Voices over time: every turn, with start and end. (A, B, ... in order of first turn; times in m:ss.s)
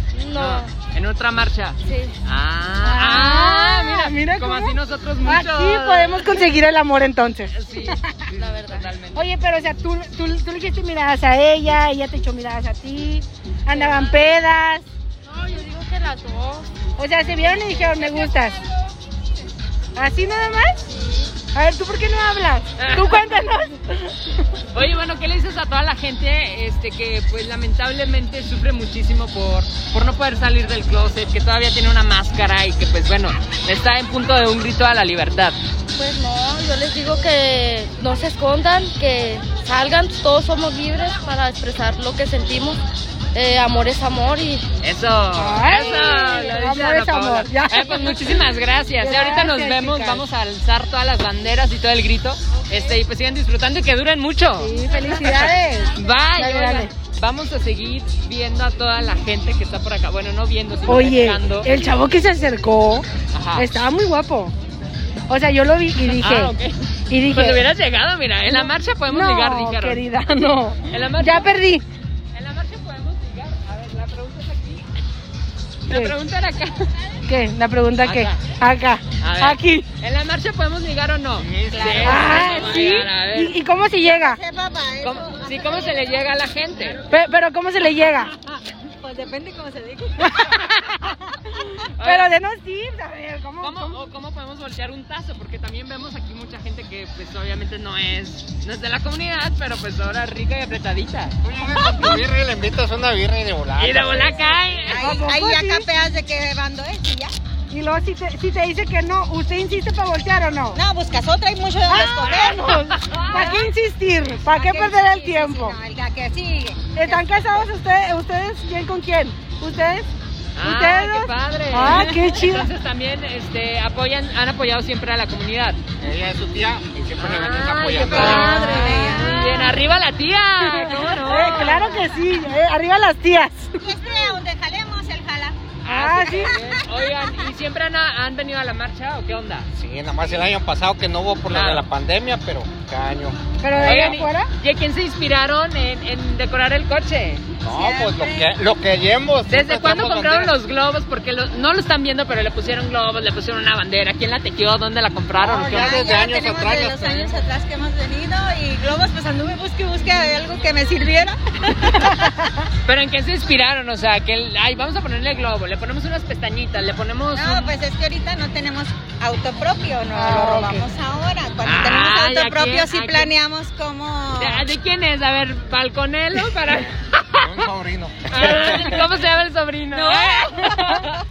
0:00.1-0:00.7 A
0:00.3-0:06.5 B
0:01.8-0:02.2 A
0:02.8-0:08.2 C
0:07.5-0:09.2 B
0:08.3-0:08.9 A
0:09.1-0:14.9 C
0:13.7-0:14.3 A
0:15.2-0:16.7 A
0:17.0-0:18.6 C
0:17.2-0:18.7 A
0:20.0-0:20.8 C
0:20.9-0:21.3 A
0:21.5-0:24.4 C
0:22.8-0:23.2 B
0:24.7-0:35.6 B
0:35.9-0:42.8 A
0:43.3-0:44.6 A
0:44.8-1:01.7 B
0:45.3-0:48.4 C
0:49.0-0:50.2 C
0:52.6-0:53.0 A
0:54.6-0:56.9 C
1:00.8-1:04.5 C
1:03.3-1:03.7 B
1:05.3-1:06.5 C
1:06.1-1:10.0 B
1:07.1-1:07.7 C
1:08.5-1:11.8 C
1:10.9-1:11.5 B
1:12.3-1:14.8 B
1:15.9-1:16.9 B
1:15.9-1:16.1 C
1:17.2-1:19.9 C
1:18.0-1:18.4 B
1:19.2-1:23.5 B
1:21.4-1:22.4 D
1:21.8-1:22.1 E
1:22.0-1:24.4 C
1:24.0-1:26.0 E
1:25.0-1:27.0 B
1:27.1-1:28.3 C
1:29.0-1:30.3 A
1:30.2-1:34.0 C
1:32.0-1:32.3 B
1:33.6-1:41.3 B
1:41.4-1:44.4 D
1:43.8-1:45.2 B
1:44.4-1:47.3 E
1:44.9-1:45.9 C
1:47.7-1:50.8 C
1:50.7-1:52.8 E
1:51.9-1:55.8 C
1:52.4-1:53.6 B
1:54.3-1:57.6 E
1:56.9-2:00.1 C
2:00.6-2:05.8 B
2:00.6-2:02.7 C
2:06.0-2:08.6 D
2:07.2-2:12.1 B
2:08.2-2:09.4 C
2:08.9-2:09.2 A
2:10.6-2:14.3 C
2:13.8-2:15.6 E
2:15.8-2:19.7 B
2:15.8-2:16.6 C
2:19.7-2:23.4 D
2:21.5-2:21.9 B
2:23.6-2:24.5 C
2:23.8-2:27.4 B
2:27.6-2:30.5 D
2:27.7-2:28.5 E
2:29.5-2:36.1 B
2:35.4-2:37.4 D
2:35.5-2:42.3 E
2:42.8-2:47.7 B
2:47.3-2:54.7 E
2:50.1-2:50.8 C
2:51.6-2:53.3 B
2:54.4-2:57.6 B
2:57.4-2:59.1 D
2:58.3-3:01.1 B
3:00.5-3:01.0 C